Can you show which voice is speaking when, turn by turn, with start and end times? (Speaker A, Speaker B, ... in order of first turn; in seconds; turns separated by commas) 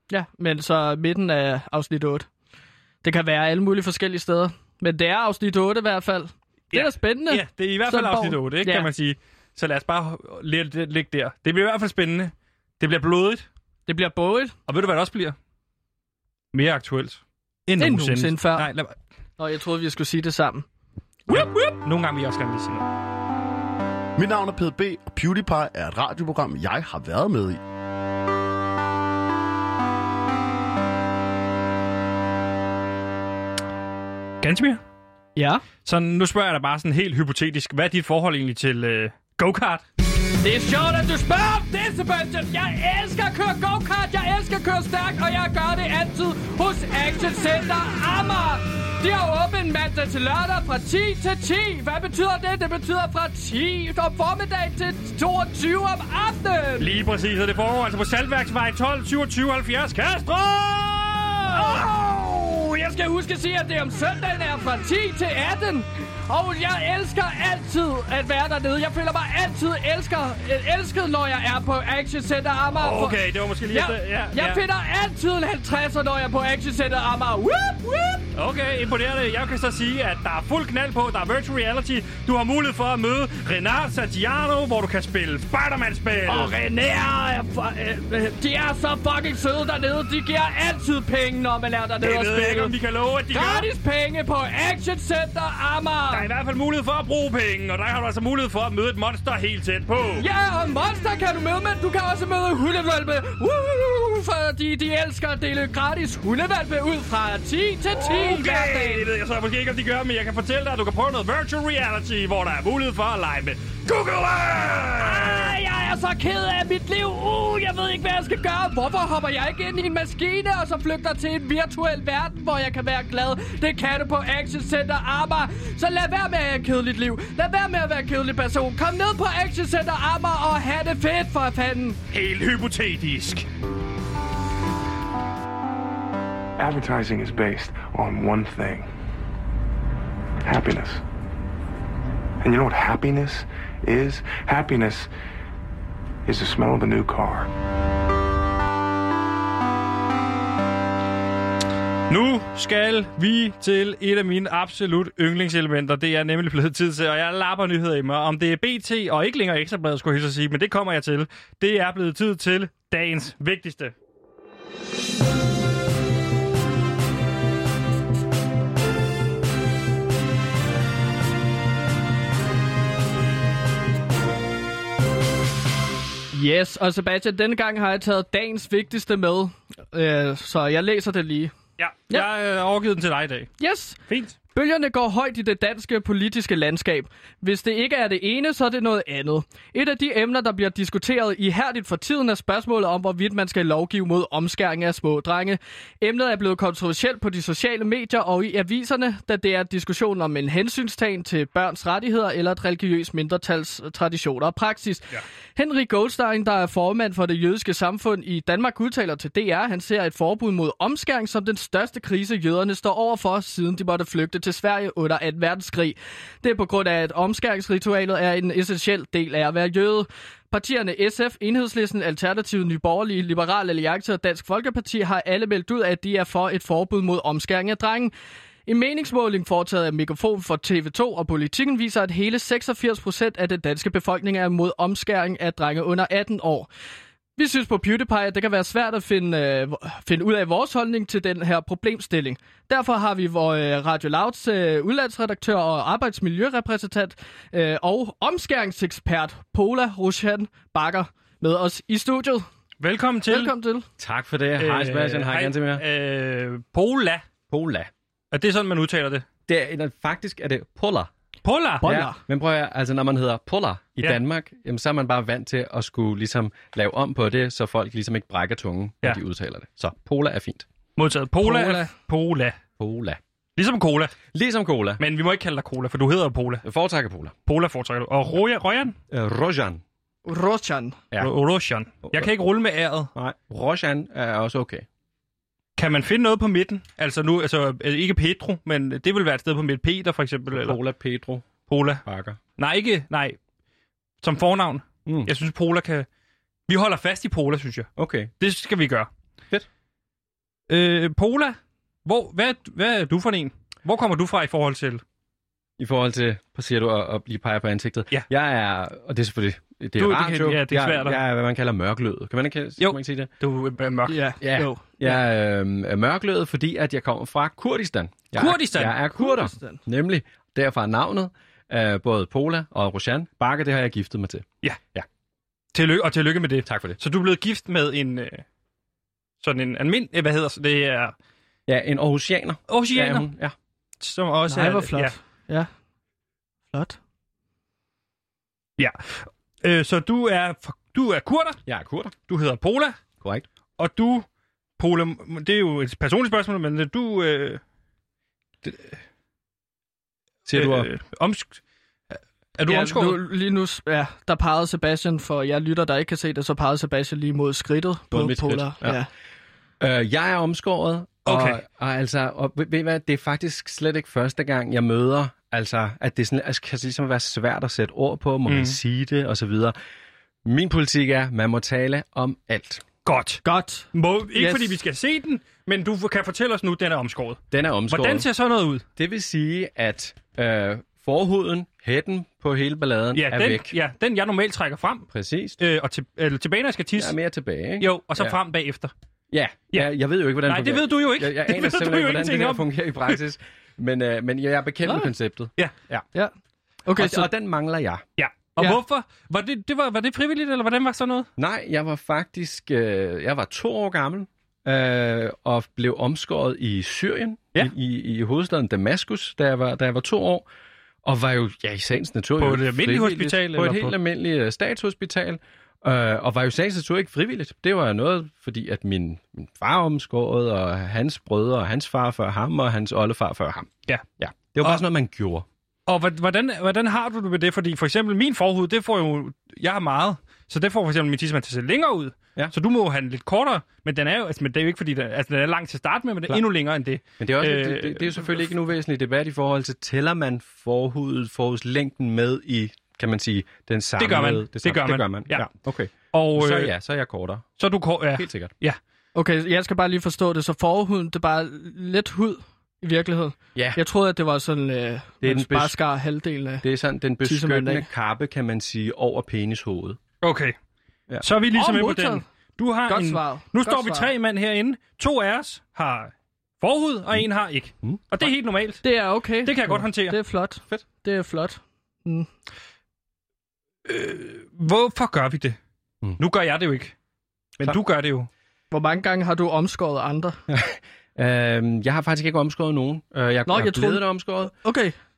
Speaker A: 0.1-2.3, Speaker A: 3.0-8.9, Speaker B: 6.7-13.5, Speaker A: 13.9-14.6, Speaker B: 14.7-15.4, Speaker B: 16.5-18.9, Speaker A: 17.8-18.7, Speaker A: 19.4-20.6, Speaker A: 21.3-21.8, Speaker B: 21.3-22.9, Speaker C: 24.2-27.6, Speaker B: 34.4-34.8, Speaker A: 35.4-35.6, Speaker B: 35.8-39.8, Speaker A: 40.4-56.9, Speaker B: 56.8-61.8, Speaker A: 61.5-78.3, Speaker B: 72.8-74.6, Speaker B: 78.3-86.5, Speaker A: 86.3-92.7, Speaker B: 92.0-93.7, Speaker A: 93.3-96.3, Speaker B: 96.1-100.2, Speaker A: 100.2-109.0, Speaker B: 108.0-115.5, Speaker A: 115.0-132.0, Speaker B: 132.1-133.4, Speaker D: 136.6-138.9, Speaker D: 140.4-141.0, Speaker D: 142.4-145.1, Speaker D: 146.2-147.5, Speaker B: 152.1-163.9, Speaker A: 176.3-181.5, Speaker B: 181.8-183.5, Speaker A: 183.6-184.0, Speaker B: 184.1-184.4, Speaker A: 184.5-228.1, Speaker A: 228.7-236.7, Speaker A: 237.4-252.4, Speaker B: 252.8-253.5, Speaker A: 253.3-253.9, Speaker E: 254.0-255.8, Speaker B: 254.6-257.2, Speaker E: 257.5-257.9, Speaker B: 258.3-259.2, Speaker E: 259.5-261.1, Speaker B: 261.4-261.9, Speaker A: 261.8-262.2, Speaker E: 261.8-270.6, Speaker B: 270.9-272.6, Speaker A: 271.4-271.9, Speaker E: 272.8-273.2, Speaker B: 273.6-274.1, Speaker E: 274.3-275.0, Speaker B: 275.0-276.6, Speaker E: 276.6-277.3, Speaker B: 277.4-279.0, Speaker E: 279.1-279.8, Speaker A: 280.2-281.0, Speaker B: 281.2-283.1, Speaker E: 282.0-282.3, Speaker E: 283.1-284.8, Speaker B: 285.8-290.8, Speaker E: 290.5-291.5, Speaker B: 291.6-292.0, Speaker E: 292.1-292.4, Speaker B: 292.6-293.4, Speaker B: 294.2-296.1, Speaker E: 295.1-295.3, Speaker B: 296.7-299.1, Speaker E: 298.0-298.3, Speaker B: 300.7-305.0, Speaker E: 305.8-313.3, Speaker B: 310.0-311.2, Speaker B: 312.8-314.2, Speaker A: 314.1-315.2, Speaker E: 314.4-325.1, Speaker B: 318.3-318.9, Speaker A: 319.2-319.8, Speaker B: 325.7-328.4, Speaker E: 326.6-327.0, Speaker B: 329.4-331.1, Speaker E: 331.7-333.5, Speaker B: 332.7-333.3, Speaker B: 334.0-335.1, Speaker A: 334.5-335.7, Speaker A: 336.7-337.0, Speaker B: 338.8-341.6, Speaker E: 341.6-342.1, Speaker B: 342.2-343.0, Speaker B: 343.8-344.2, Speaker B: 344.8-347.6, Speaker B: 348.6-348.9, Speaker E: 350.5-350.9, Speaker B: 350.5-351.6, Speaker B: 352.1-353.2, Speaker A: 352.7-359.1, Speaker E: 358.1-359.0, Speaker E: 359.8-369.7, Speaker B: 361.2-361.6, Speaker B: 368.5-368.8, Speaker E: 370.4-372.8, Speaker B: 373.0-378.8, Speaker A: 373.4-374.8, Speaker E: 377.5-378.3, Speaker E: 378.9-383.7, Speaker B: 383.1-387.1, Speaker E: 385.1-385.6, Speaker E: 386.9-388.4, Speaker B: 387.8-388.9, Speaker E: 389.3-396.1, Speaker B: 390.4-393.2, Speaker A: 394.8-395.1, Speaker A: 396.9-397.3, Speaker E: 396.9-398.0, Speaker B: 398.2-401.3, Speaker E: 401.4-410.5, Speaker E: 411.0-425.4, Speaker B: 412.4-413.9, Speaker B: 425.9-438.4, Speaker E: 437.2-447.6, Speaker B: 444.0-445.5, Speaker B: 446.1-446.7, Speaker B: 447.6-448.8, Speaker E: 448.2-448.5, Speaker A: 449.1-456.6, Speaker E: 453.6-453.8, Speaker E: 455.2-455.8, Speaker E: 456.6-460.0, Speaker A: 457.2-457.9, Speaker B: 460.2-460.5, Speaker B: 461.2-468.8, Speaker A: 461.5-462.2, Speaker A: 462.9-464.1, Speaker E: 467.8-468.3, Speaker A: 468.8-472.3, Speaker B: 469.4-470.2, Speaker B: 473.9-475.6, Speaker B: 476.2-476.9, Speaker B: 477.6-478.3, Speaker A: 478.7-480.4, Speaker E: 480.5-484.5, Speaker A: 483.4-484.9